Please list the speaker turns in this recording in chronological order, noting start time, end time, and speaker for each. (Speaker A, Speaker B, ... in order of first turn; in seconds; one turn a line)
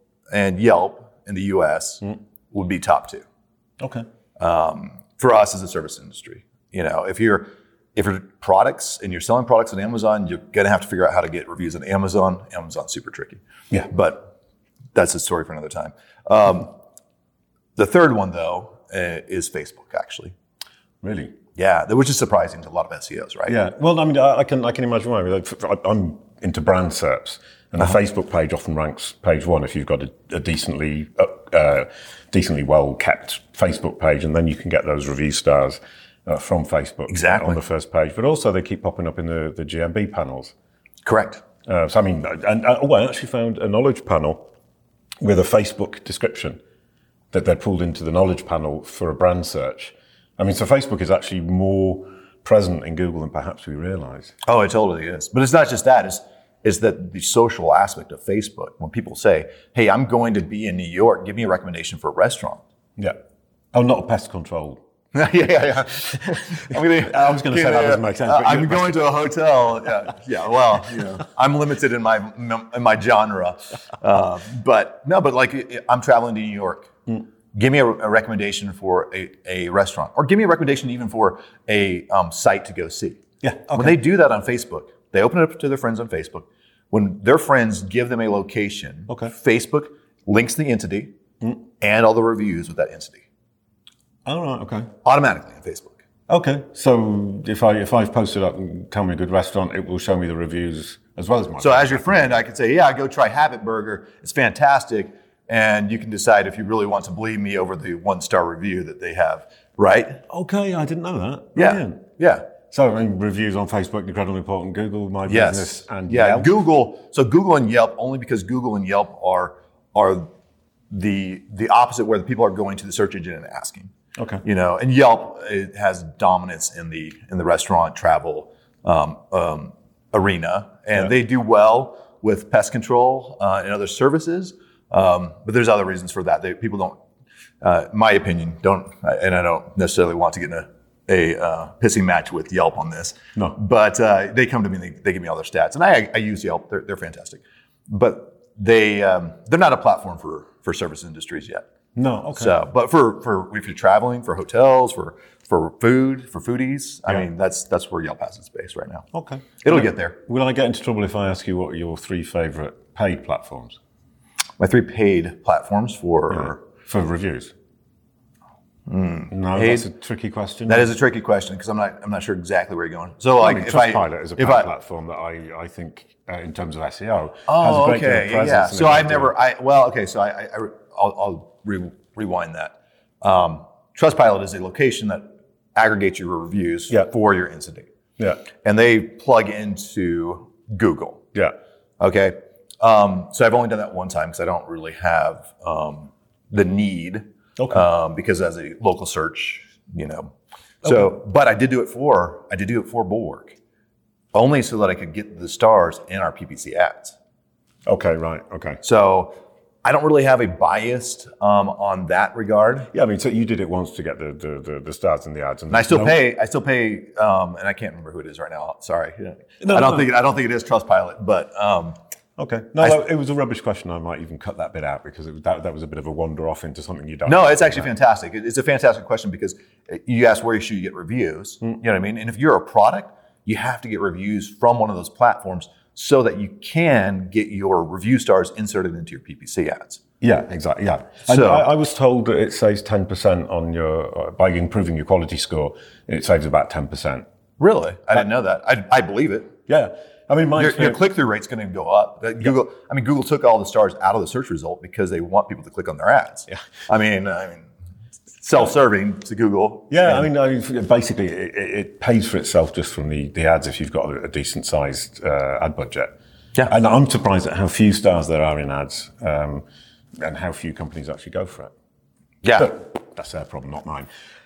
Speaker A: 0.3-3.2
Speaker B: 3.8-4.0
Speaker A: 4.4-14.3
Speaker A: 14.9-16.7
Speaker A: 17.8-20.3
Speaker B: 21.0-21.4
Speaker A: 21.6-23.6
Speaker B: 23.5-40.5
Speaker A: 37.1-37.6
Speaker A: 41.0-41.4
Speaker B: 41.7-44.5
Speaker B: 45.2-46.6
Speaker B: 47.3-54.3
Speaker A: 54.5-62.6
Speaker B: 63.7-64.8
Speaker A: 65.1-76.9
Speaker B: 66.3-69.2
Speaker A: 77.5-91.1
Speaker B: 83.4-84.0
Speaker A: 91.8-93.2
Speaker B: 94.2-94.9
Speaker A: 95.0-96.0
Speaker B: 96.3-102.4
Speaker A: 101.6-110.2
Speaker B: 110.3-112.0
Speaker A: 111.5-112.5
Speaker B: 112.7-116.5
Speaker A: 115.3-120.3
Speaker A: 120.9-123.9
Speaker B: 124.2-124.4
Speaker A: 124.4-136.9
Speaker A: 137.6-151.6
Speaker B: 151.9-152.5
Speaker A: 152.3-159.0
Speaker B: 159.1-163.8
Speaker A: 159.6-160.2
Speaker A: 164.6-166.6
Speaker B: 166.3-167.5
Speaker A: 168.9-169.9
Speaker B: 169.3-170.9
Speaker A: 170.7-174.7
Speaker B: 173.4-179.3
Speaker A: 177.5-187.9
Speaker B: 188.2-188.4
Speaker A: 188.6-191.2
Speaker A: 192.0-203.5
Speaker B: 197.6-197.8
Speaker B: 200.8-201.1
Speaker A: 204.3-207.2
Speaker B: 207.8-208.8
Speaker A: 208.8-212.9
Speaker B: 212.9-216.2
Speaker A: 215.7-221.9
Speaker B: 219.6-220.1
Speaker B: 222.4-227.9
Speaker A: 227.2-240.0
Speaker B: 240.2-247.2
Speaker A: 241.2-241.7
Speaker A: 247.6-249.5
Speaker B: 249.7-251.0
Speaker A: 250.6-257.7
Speaker A: 258.4-260.3
Speaker B: 259.9-266.1
Speaker B: 266.7-269.6
Speaker B: 270.2-271.7
Speaker A: 272.4-272.7
Speaker B: 272.6-274.1